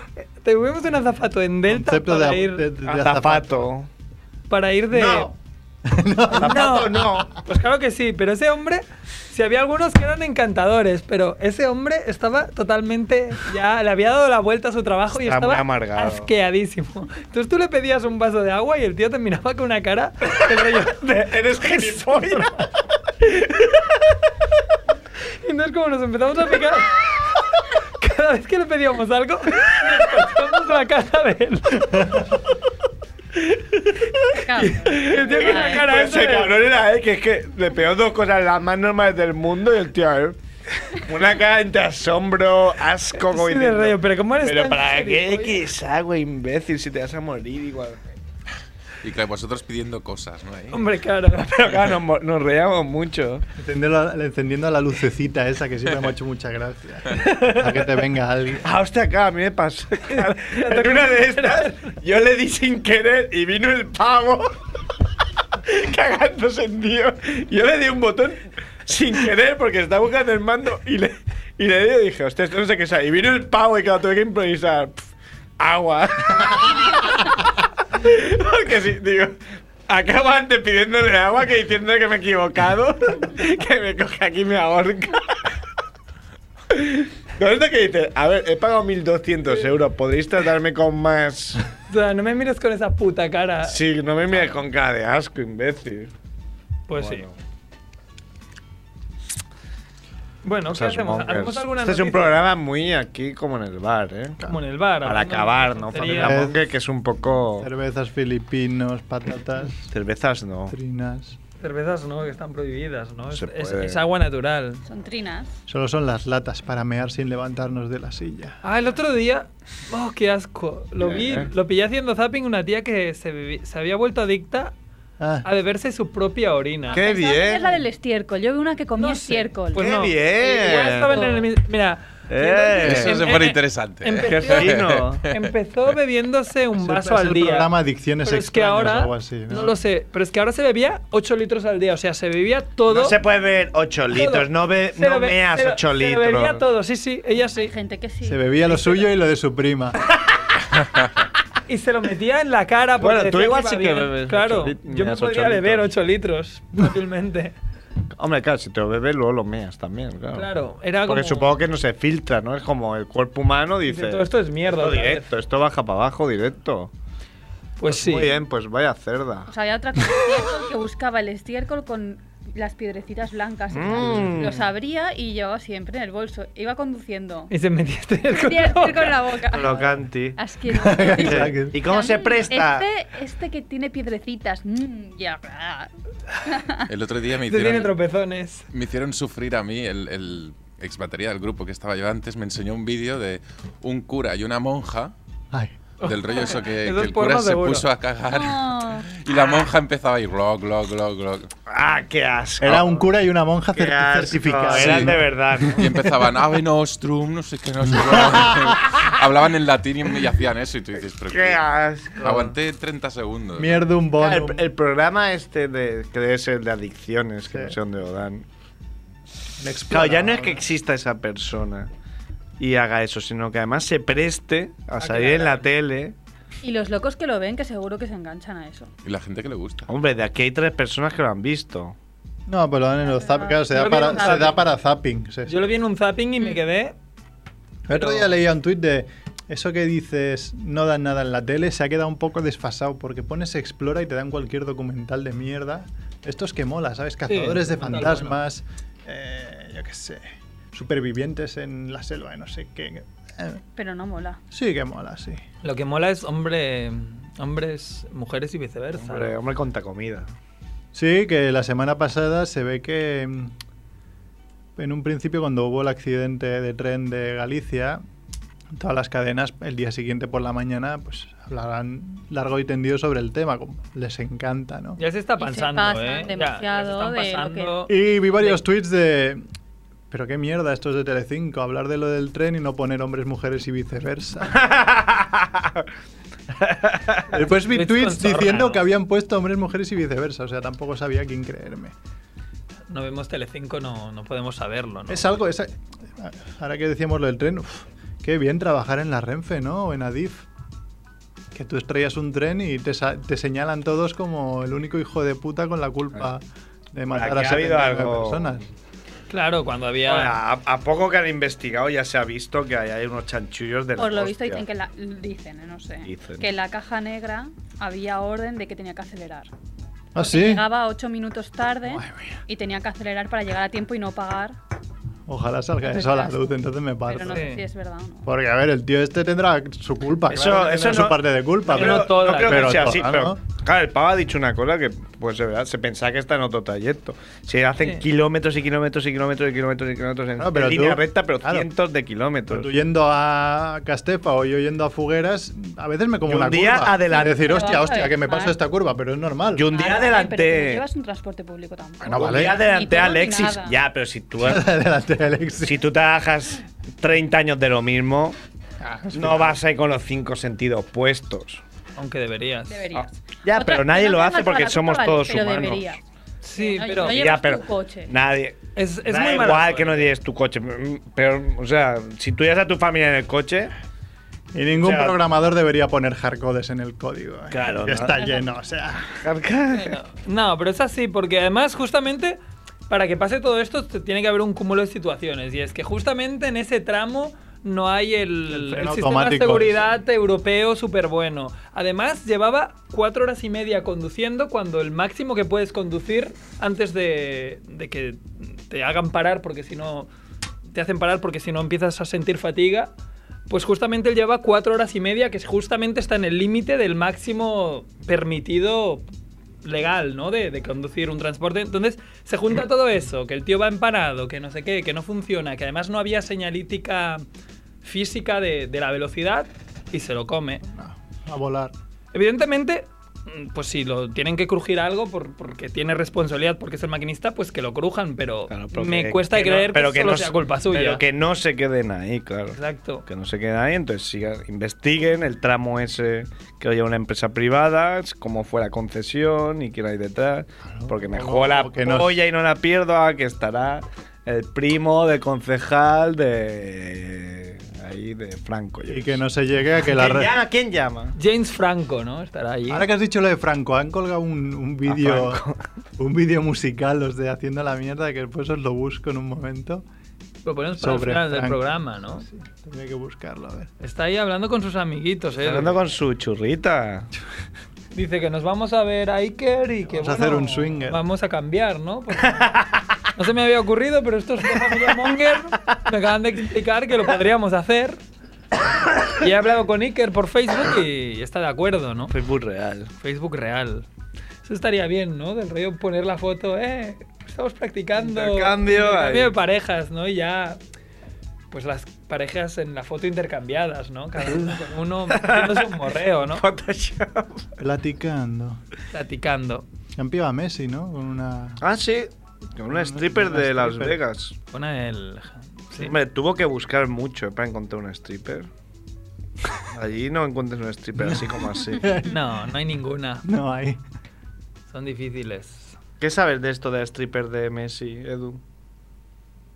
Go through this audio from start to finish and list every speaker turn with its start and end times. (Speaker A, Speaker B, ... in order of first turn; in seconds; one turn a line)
Speaker A: 0.4-2.7
Speaker B: 1.7-3.7
Speaker C: 2.9-3.9
Speaker A: 4.5-5.3
Speaker C: 4.9-5.3
Speaker B: 5.8-7.2
Speaker C: 6.3-7.3
Speaker A: 6.4-22.6
Speaker C: 15.2-16.3
Speaker C: 20.3-22.6
Speaker C: 23.2-23.9
Speaker A: 25.4-27.0
Speaker A: 28.0-32.2
Speaker C: 33.4-34.3
Speaker D: 34.4-35.9
Speaker A: 34.4-36.6
Speaker C: 34.8-40.4
Speaker C: 41.0-48.0
Speaker A: 43.2-45.6
Speaker E: 49.0-50.9
Speaker A: 50.7-51.6
Speaker C: 51.3-53.5
Speaker B: 53.6-58.7
Speaker A: 57.3-57.5
Speaker C: 58.6-64.6
Speaker A: 60.1-61.9
Speaker C: 65.7-79.4
Speaker C: 79.9-85.5
Speaker C: 86.7-91.6
Speaker A: 91.9-93.8
Speaker C: 93.7-96.1
Speaker A: 96.9-97.3
Speaker C: 96.9-97.4
Speaker A: 100.4-102.4
Speaker C: 100.7-104.4
Speaker A: 104.5-106.4
Speaker C: 105.0-107.7
Speaker B: 106.1-106.6
Speaker B: 107.6-109.8
Speaker C: 109.9-110.8
Speaker B: 110.7-111.4
Speaker A: 111.6-114.8
Speaker C: 113.3-114.0
Speaker D: 114.8-115.6
Speaker B: 115.7-118.6
Speaker A: 118.6-124.7
Speaker C: 121.0-121.5
Speaker B: 125.2-125.5
Speaker A: 125.5-127.0
Speaker D: 126.9-129.8
Speaker C: 126.9-127.8
Speaker A: 129.0-137.7
Speaker C: 129.7-131.2
Speaker D: 130.7-131.5
Speaker C: 132.3-133.3
Speaker E: 132.8-135.4
Speaker C: 134.2-135.2
Speaker B: 136.8-139.8
Speaker A: 138.2-143.2
Speaker C: 142.9-146.6
Speaker A: 144.1-147.7
Speaker D: 147.6-149.1
Speaker B: 148.2-150.0
Speaker A: 151.7-157.6
Speaker C: 153.0-155.9
Speaker C: 158.2-160.5
Speaker A: 160.3-161.5
Speaker C: 161.1-166.9
Speaker A: 163.9-165.3
Speaker A: 167.8-168.3
Speaker C: 167.9-169.5
Speaker D: 169.5-177.5
Speaker C: 173.7-174.7
Speaker A: 177.5-179.2
Speaker D: 178.3-185.9
Speaker C: 179.5-182.9
Speaker B: 180.7-181.8
Speaker D: 186.4-186.8
Speaker E: 186.9-187.9
Speaker A: 187.5-188.7
Speaker E: 188.7-195.1
Speaker B: 195.5-195.8
Speaker A: 196.0-197.9
Speaker E: 196.0-201.5
Speaker D: 198.3-199.1
Speaker C: 201.7-203.0
Speaker B: 202.6-206.3
Speaker C: 203.7-205.8
Speaker E: 204.7-205.1
Speaker E: 205.7-211.6
Speaker B: 208.1-208.8
Speaker C: 211.3-212.5
Speaker E: 212.2-213.8
Speaker B: 213.6-214.7
Speaker C: 214.2-218.4
Speaker B: 217.5-217.8
Speaker B: 219.6-220.6
Speaker C: 219.9-221.9
Speaker C: 222.6-226.2
Speaker A: 225.0-225.7
Speaker D: 226.6-228.9
Speaker E: 229.0-229.9
Speaker C: 229.9-231.9
Speaker B: 232.5-235.6
Speaker D: 233.0-234.6
Speaker A: 233.7-234.6
Speaker A: 235.5-236.9
Speaker B: 237.9-253.6
Speaker A: 237.9-238.3
Speaker A: 247.3-248.4
Speaker D: 253.8-254.4
Speaker B: 254.5-255.4
Speaker A: 255.6-259.4
Speaker C: 259.0-260.3
Speaker B: 260.9-263.5
Speaker B: 264.8-268.0
Speaker B: 268.8-275.0
Speaker A: 275.0-278.6
Speaker D: 275.4-277.8
Speaker B: 277.9-279.4
Speaker B: 280.1-284.6
Speaker C: 284.5-285.9
Speaker C: 286.6-287.3
Speaker B: 287.3-291.9
Speaker A: 287.7-288.8
Speaker A: 292.9-295.3
Speaker B: 295.1-300.5
Speaker B: 301.5-306.4
Speaker B: 306.9-308.7
Speaker C: 307.1-308.6
Speaker A: 309.3-310.4
Speaker C: 310.1-314.6
Speaker D: 314.0-319.5
Speaker C: 316.0-316.5
Speaker B: 320.1-320.6
Speaker D: 320.2-324.6
Speaker B: 321.8-322.4
Speaker B: 325.3-327.5
Speaker D: 325.8-326.6
Speaker D: 327.1-328.3
Speaker A: 327.3-327.6
Speaker B: 328.2-333.4
Speaker C: 330.3-342.7
Speaker A: 331.7-333.0
Speaker B: 340.4-341.7
Speaker B: 342.5-349.7
Speaker C: 346.3-347.6
Speaker D: 347.1-348.6
Speaker C: 349.6-350.9
Speaker D: 349.7-353.7
Speaker B: 352.0-352.6
Speaker C: 352.1-354.7
Speaker B: 354.4-355.9
Speaker C: 355.6-358.4
Speaker B: 358.8-359.6
Speaker C: 359.1-361.6
Speaker A: 362.0-362.9
Speaker D: 362.7-366.0
Speaker C: 362.9-366.0
Speaker A: 366.4-367.2
Speaker D: 366.6-368.1
Speaker C: 367.0-373.7
Speaker A: 368.8-370.1
Speaker B: 374.5-379.2
Speaker C: 374.8-375.2
Speaker C: 377.5-378.2
Speaker D: 378.1-378.5
Speaker C: 379.2-380.0
Speaker A: 379.7-400.1
Speaker B: 388.5-389.8
Speaker A: 400.7-402.9
Speaker A: 403.5-409.0
Speaker A: 409.6-417.2
Speaker A: 417.8-420.6
Speaker B: 420.7-421.7
Speaker A: 422.1-431.0
Speaker C: 428.5-449.2
Speaker A: 432.5-433.1
Speaker B: 440.7-442.2
Speaker B: 448.9-450.3
Speaker C: 449.8-451.1
Speaker A: 451.2-452.9
Speaker B: 452.7-455.4
Speaker C: 454.9-455.6
Speaker B: 456.0-459.8
Speaker A: 460.4-462.2
Speaker B: 460.8-461.6
Speaker B: 462.2-463.7
Speaker A: 463.8-465.8
Speaker C: 465.4-467.1
Speaker A: 467.9-472.6
Speaker B: 469.9-471.0
Speaker C: 472.4-472.8
Speaker A: 473.1-478.0
Speaker A: 479.1-482.1
Speaker C: 482.1-482.9
Speaker A: 483.0-483.9
Speaker A: 484.4-490.6
Speaker C: 488.0-489.3
Speaker A: 491.5-496.4
Speaker C: 494.3-494.6
Speaker C: 495.1-497.5
Speaker B: 497.6-498.6
Speaker A: 498.9-499.6
Speaker B: 500.0-501.6
Speaker C: 501.6-504.4
Speaker B: 502.7-504.0
Speaker A: 504.5-505.9
Speaker C: 505.8-508.5
Speaker C: 509.7-511.9
Speaker B: 511.0-512.2
Speaker A: 512.0-513.2
Speaker B: 513.2-513.8
Speaker A: 514.7-515.8
Speaker C: 516.0-518.4